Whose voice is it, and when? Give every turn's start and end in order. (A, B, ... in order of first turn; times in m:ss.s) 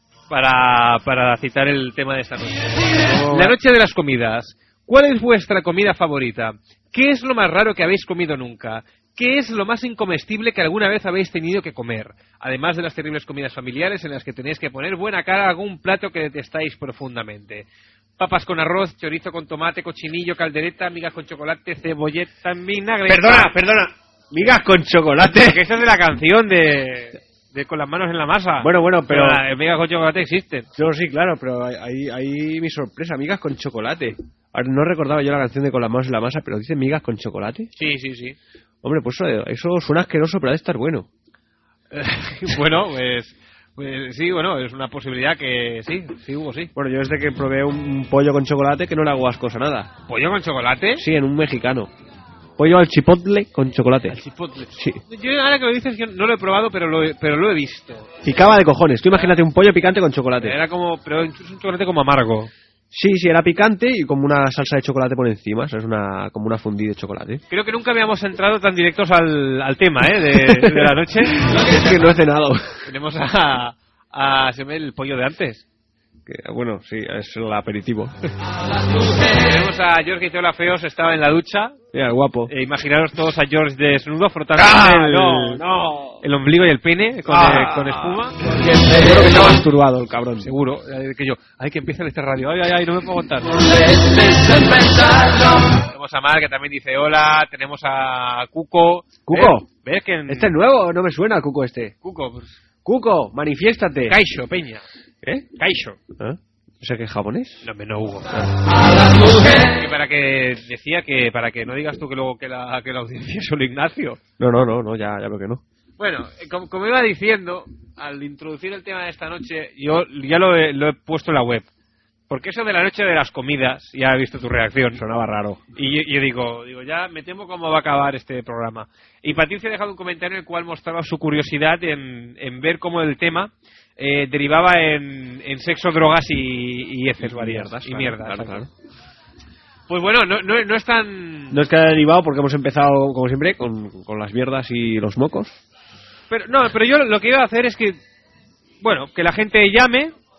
0:00.3-0:17.6 A
0:03.0-0:03.6 B
0:18.2-0:23.6 A
0:23.1-0:25.6 B
0:25.3-0:30.7 A
0:28.6-0:29.4 B
0:30.8-0:37.7 B
0:37.8-0:38.4 A
0:38.8-0:41.1 B
0:41.9-0:46.7 A
0:46.7-0:49.9 B
0:50.1-0:51.0 A
0:51.0-0:51.9 B
0:52.6-0:54.2 B
0:54.1-0:58.1 A
0:54.7-0:55.0 B
0:58.2-1:00.6 B
1:00.4-1:02.5 A
1:02.9-1:07.4 B
1:07.5-1:11.4 A
1:10.2-1:12.9 B
1:12.8-1:15.6 A
1:16.2-1:18.1 B
1:19.2-1:21.8 A
1:21.9-1:22.5 B
1:22.5-1:25.6 A
1:24.6-1:26.2 B
1:26.2-1:28.4 A
1:27.3-1:30.5 B
1:30.4-1:33.6 A
1:34.0-1:35.4 B
1:35.8-1:40.5 A
1:39.2-1:39.6 B
1:40.3-1:41.9 B
1:42.0-1:42.6 A
1:42.8-1:44.2 B
1:44.1-1:44.8 A
1:45.2-1:45.5 B
1:45.6-1:46.0 A
1:46.2-1:47.6 B
1:47.6-1:48.5 A
1:49.3-1:54.2 A
1:54.4-1:55.6 B
1:56.0-2:01.7 A
2:02.3-2:05.0 A
2:04.9-2:05.6 B
2:05.7-2:18.7 A
2:17.2-2:18.7 B
2:19.9-2:21.6 A
2:21.5-2:25.6 B
2:26.3-2:28.0 A
2:28.8-2:30.1 A